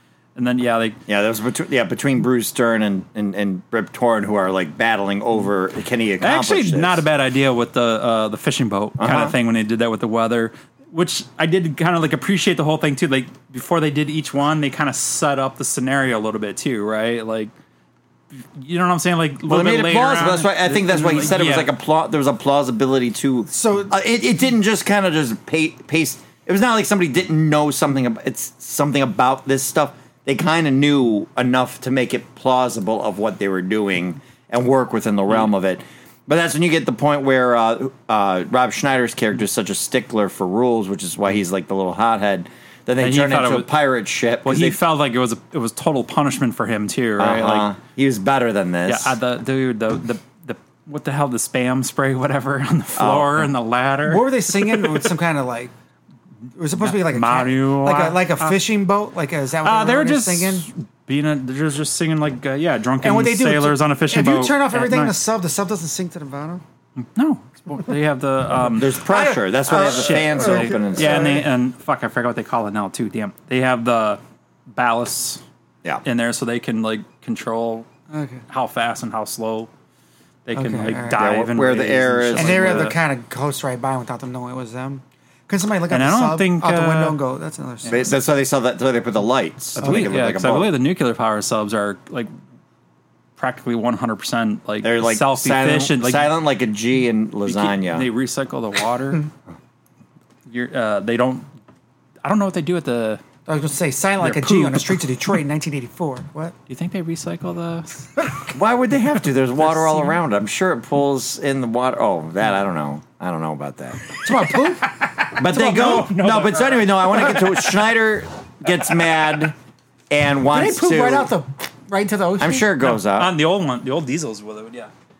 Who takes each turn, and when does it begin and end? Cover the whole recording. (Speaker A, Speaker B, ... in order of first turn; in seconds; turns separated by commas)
Speaker A: 0.3-1.0, Speaker B: 1.1-7.0, Speaker A: 6.2-17.5, Speaker B: 9.0-9.3, Speaker A: 18.4-21.7, Speaker B: 19.5-44.8, Speaker C: 23.5-23.9, Speaker A: 43.0-43.7, Speaker A: 44.4-47.7, Speaker B: 47.2-49.1, Speaker A: 48.9-55.1, Speaker B: 53.0-53.5, Speaker C: 54.0-55.7, Speaker C: 56.5-60.7, Speaker A: 56.8-58.6, Speaker A: 59.6-65.1, Speaker C: 63.0-66.6, Speaker A: 67.1-68.9, Speaker B: 68.7-71.4, Speaker C: 69.1-71.4, Speaker A: 69.7-74.2, Speaker A: 74.7-75.4, Speaker A: 76.0-77.9, Speaker C: 78.1-78.4, Speaker A: 78.5-79.7, Speaker A: 80.4-83.0, Speaker C: 80.5-81.2, Speaker B: 81.1-82.9, Speaker C: 82.3-88.1, Speaker A: 85.9-87.2, Speaker B: 87.9-90.7, Speaker A: 89.8-92.3, Speaker C: 89.8-90.1, Speaker A: 93.4-96.3, Speaker B: 94.8-98.1, Speaker A: 97.5-99.3, Speaker A: 100.5-101.5, Speaker A: 102.2-103.2, Speaker C: 103.5-106.5, Speaker A: 104.2-105.3, Speaker A: 106.7-108.0, Speaker B: 108.5-114.1, Speaker C: 114.2-116.1, Speaker B: 115.3-119.5, Speaker A: 115.4-117.5, Speaker B: 120.1-121.3, Speaker C: 120.5-122.7, Speaker B: 122.4-123.3, Speaker A: 122.8-124.9